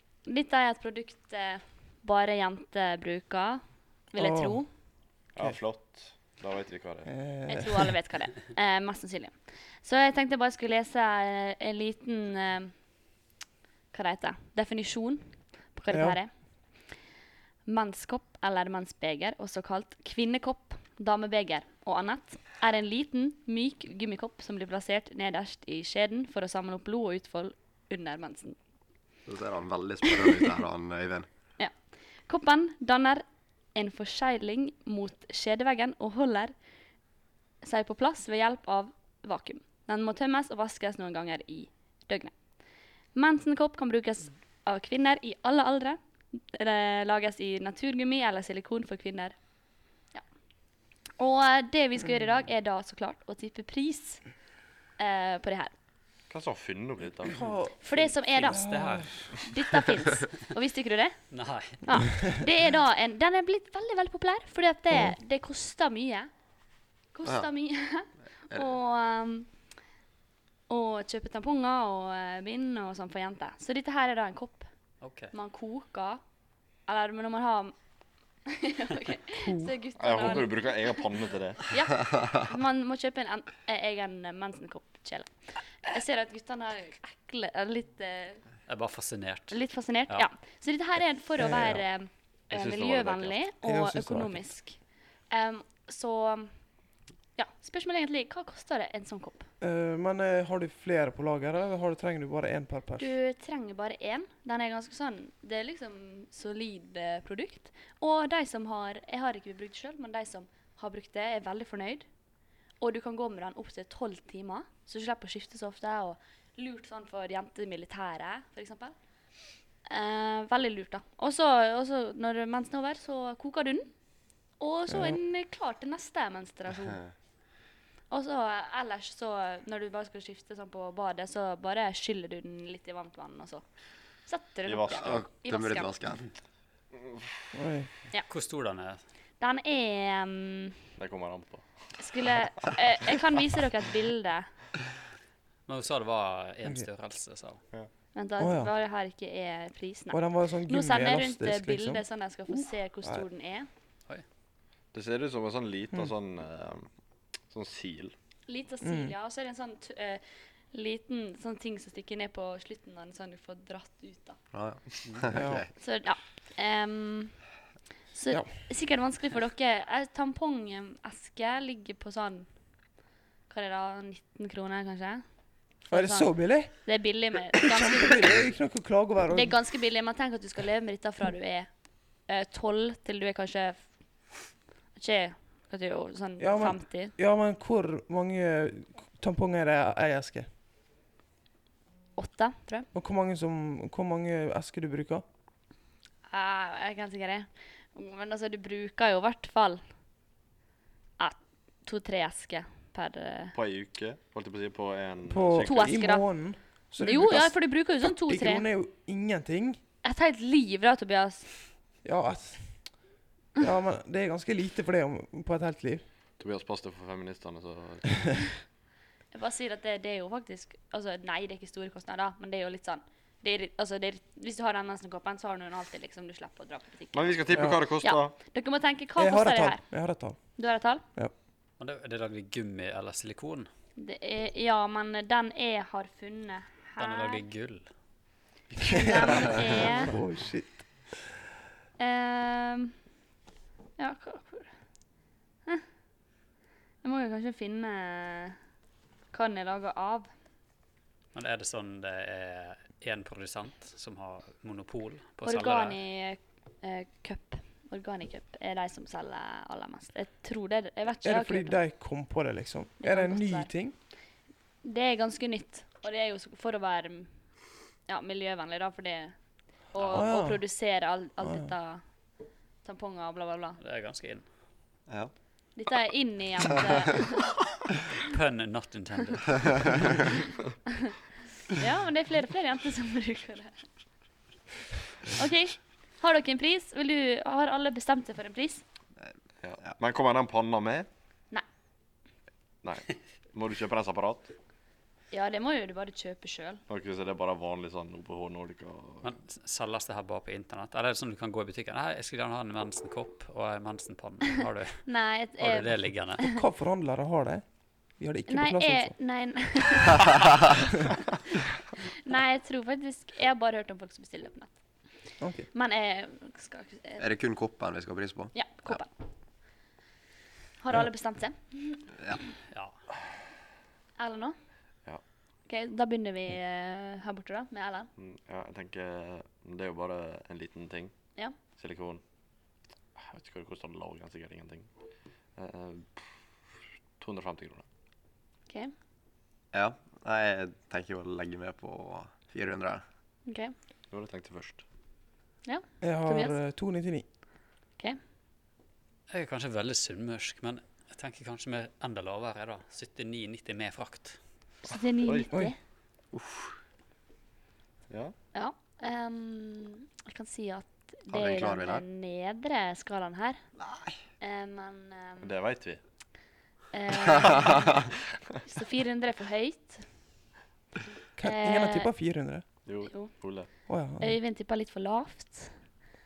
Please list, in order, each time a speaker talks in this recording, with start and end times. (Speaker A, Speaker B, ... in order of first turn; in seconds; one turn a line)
Speaker A: 0.2-4.7
Speaker B: 4.1-4.6
Speaker C: 5.3-7.1
Speaker B: 7.0-7.9
Speaker A: 7.5-12.7
Speaker A: 13.9-16.3
Speaker B: 15.9-16.2
Speaker A: 17.6-28.6
Speaker D: 29.2-31.3
Speaker A: 32.3-33.2
Speaker A: 33.7-36.5
Speaker A: 37.6-42.3
Speaker A: 43.1-49.4
Speaker A: 51.2-54.2
Speaker A: 55.0-55.7
Speaker C: 56.3-57.4
Speaker B: 57.2-57.7
Speaker A: 57.8-58.6
Speaker E: 58.3-59.3
Speaker B: 58.4-59.1
Speaker A: 59.4-61.2
Speaker E: 61.3-61.9
Speaker A: 61.8-66.3
Speaker A: 67.1-69.5
Speaker A: 70.7-74.7
Speaker E: 75.0-75.3
Speaker A: 75.3-76.2
Speaker A: 76.9-77.7
Speaker A: 78.5-81.0
Speaker B: 79.4-79.7
Speaker C: 80.0-81.7
Speaker A: 81.7-88.4
Speaker E: 88.7-89.6
Speaker A: 89.5-94.8
Speaker B: 91.4-91.8
Speaker C: 92.5-93.4
Speaker B: 93.6-94.5
Speaker A: 95.3-96.5
Speaker A: 97.3-99.5
Speaker B: 99.6-103.1
Speaker A: 103.0-112.0
Speaker A: 112.8-118.9
Speaker A: 119.8-123.9
Speaker A: 124.6-127.0
Speaker B: 124.9-125.2
Speaker A: 128.1-133.6
Speaker A: 134.3-135.9
Speaker C: 134.7-135.2
Speaker D: 134.9-136.3
Speaker B: 137.5-137.9
Speaker E: 138.3-139.0
Speaker A: 139.4-140.8
Speaker C: 141.0-141.7
Speaker A: 142.0-144.5
Speaker E: 145.7-147.6
Speaker A: 148.1-153.7
Speaker B: 148.4-148.7
Speaker B: 150.1-152.0
Speaker C: 154.9-156.9
Speaker C: 157.5-158.1
Speaker A: 158.5-164.4
Speaker B: 158.8-159.1
Speaker D: 164.5-165.7
Speaker B: 165.3-165.6
Speaker A: 165.8-167.4
Speaker A: 168.1-172.5
Speaker A: 173.5-175.2
Speaker A: 175.8-178.4
Speaker B: 175.9-176.8
Speaker B: 177.5-179.6
Speaker A: 179.3-181.7
Speaker A: 182.3-183.8
Speaker A: 184.9-187.1
Speaker B: 186.4-190.5
Speaker A: 192.2-192.9
Speaker B: 192.9-195.2
Speaker A: 196.3-199.8
Speaker A: 201.2-203.5
Speaker C: 203.5-206.0
Speaker B: 205.3-209.8
Speaker A: 205.6-206.2
Speaker A: 207.0-208.7
Speaker A: 210.0-211.5
Speaker B: 212.0-212.7
Speaker B: 213.6-216.0
Speaker C: 216.4-218.4
Speaker A: 219.3-229.8
Speaker C: 227.1-228.3
Speaker B: 229.2-230.4
Speaker A: 230.6-231.0
Speaker E: 231.8-233.7
Speaker A: 234.0-237.4
Speaker E: 237.0-237.9
Speaker A: 238.8-240.2
Speaker B: 238.8-240.9
Speaker A: 242.0-242.9
Speaker A: 244.0-244.7
Speaker A: 247.0-248.6
Speaker A: 249.3-250.3
Speaker E: 251.3-256.0
Speaker A: 255.4-261.8
Speaker B: 261.2-263.9
Speaker A: 263.0-263.7
Speaker A: 264.8-267.3
Speaker A: 268.1-269.3
Speaker A: 269.9-272.0
Speaker E: 269.9-270.3
Speaker B: 270.1-270.6
Speaker B: 271.4-271.7
Speaker A: 272.8-273.8
Speaker E: 273.8-274.4
Speaker A: 275.8-277.5
Speaker E: 278.3-280.2
Speaker A: 281.7-283.9
Speaker A: 285.3-288.8
Speaker C: 289.6-291.1
Speaker C: 292.8-294.5
Speaker A: 295.3-296.8
Speaker C: 296.9-299.3
Speaker E: 299.2-305.1
Speaker A: 305.1-306.6
Speaker E: 305.6-306.4
Speaker B: 306.4-307.6
Speaker B: 308.2-309.1
Speaker A: 308.5-311.0
Speaker A: 311.9-314.7
Speaker B: 315.4-315.7
Speaker A: 315.7-317.2
Speaker D: 317.2-318.5
Speaker A: 318.5-319.1
Speaker A: 320.8-322.1
Speaker E: 322.7-323.0
Speaker A: 324.2-324.5
Speaker A: 325.7-328.1
Speaker C: 328.2-331.1
Speaker C: 331.8-332.2
Speaker C: 333.1-334.9
Speaker C: 335.6-336.2
Speaker C: 337.2-337.8
Speaker D: 339.7-343.0
Speaker A: 343.5-343.7
Speaker C: 344.1-344.8
Speaker A: 345.6-346.6
Speaker B: 346.0-347.2
Speaker E: 349.3-354.4
Speaker A: 354.8-355.8
Speaker D: 356.3-356.7
Speaker C: 358.1-358.3
Speaker A: 358.5-363.6
Speaker D: 361.3-362.0
Speaker D: 363.8-364.2
Speaker A: 364.4-365.5
Speaker C: 365.4-366.0
Speaker A: 366.9-368.0
Speaker D: 367.3-367.9
Speaker A: 368.6-370.0
Speaker B: 371.4-372.6
Speaker A: 371.4-372.1
Speaker C: 372.8-373.7
Speaker B: 373.9-374.3
Speaker A: 374.2-375.7